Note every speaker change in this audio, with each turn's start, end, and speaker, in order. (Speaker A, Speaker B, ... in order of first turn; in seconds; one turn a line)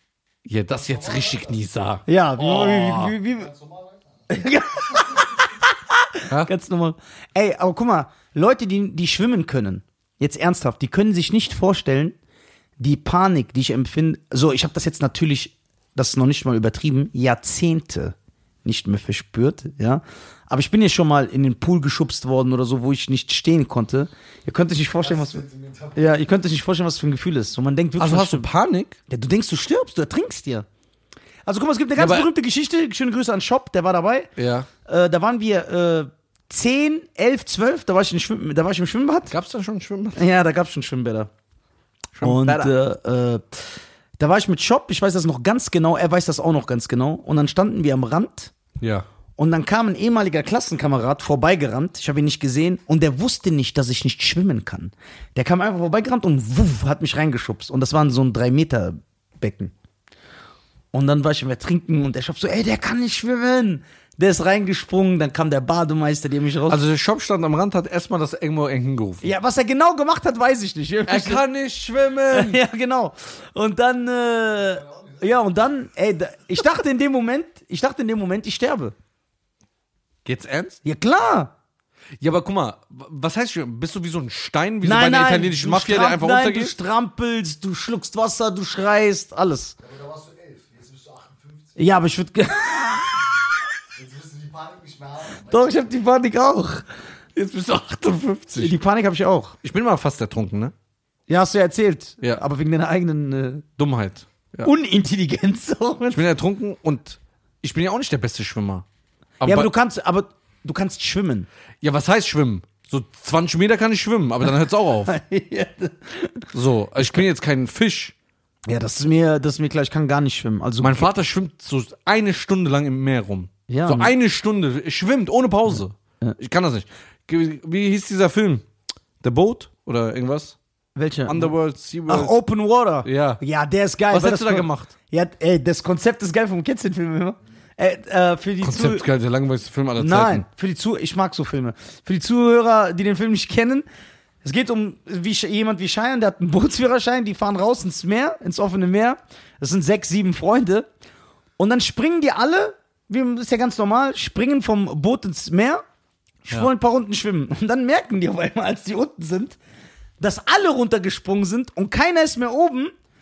Speaker A: 0.5-3.1
Speaker B: 0.7-1.6
Speaker C: 2.1-3.5
Speaker B: 2.4-4.3
Speaker C: 4.3-12.2
Speaker B: 4.8-5.4
Speaker C: 12.8-25.4
Speaker B: 25.0-26.4
Speaker C: 25.9-28.5
Speaker A: 28.0-29.0
Speaker C: 29.1-30.7
Speaker C: 31.4-34.3
Speaker A: 32.0-32.3
Speaker A: 34.4-34.7
Speaker C: 34.9-39.3
Speaker A: 39.3-40.2
Speaker C: 40.1-41.3
Speaker A: 42.1-42.7
Speaker C: 42.2-43.6
Speaker C: 44.2-48.5
Speaker A: 48.8-49.1
Speaker C: 49.4-59.7
Speaker C: 60.9-66.8
Speaker A: 66.7-69.3
Speaker C: 69.2-71.5
Speaker A: 71.1-72.6
Speaker C: 72.3-78.9
Speaker B: 74.5-75.5
Speaker A: 80.2-80.8
Speaker C: 80.8-81.5
Speaker A: 82.2-86.7
Speaker C: 84.8-89.8
Speaker B: 89.8-91.8
Speaker C: 91.8-93.1
Speaker B: 94.0-96.0
Speaker C: 95.4-96.8
Speaker A: 97.4-98.8
Speaker C: 98.6-99.6
Speaker A: 99.6-100.7
Speaker C: 101.3-103.7
Speaker A: 103.8-104.7
Speaker C: 104.6-106.3
Speaker A: 106.1-108.8
Speaker A: 109.4-109.7
Speaker C: 109.4-111.5
Speaker A: 111.8-115.2
Speaker C: 115.1-116.5
Speaker A: 116.5-118.1
Speaker C: 118.7-121.1
Speaker A: 120.8-128.6
Speaker C: 123.7-124.1
Speaker A: 129.2-130.6
Speaker C: 131.0-131.5
Speaker A: 131.3-132.3
Speaker C: 132.1-139.1
Speaker A: 133.1-133.4
Speaker A: 134.1-134.9
Speaker A: 138.6-140.5
Speaker C: 140.0-143.9
Speaker C: 144.4-150.9
Speaker C: 151.6-155.8
Speaker C: 156.4-159.6
Speaker C: 160.2-162.9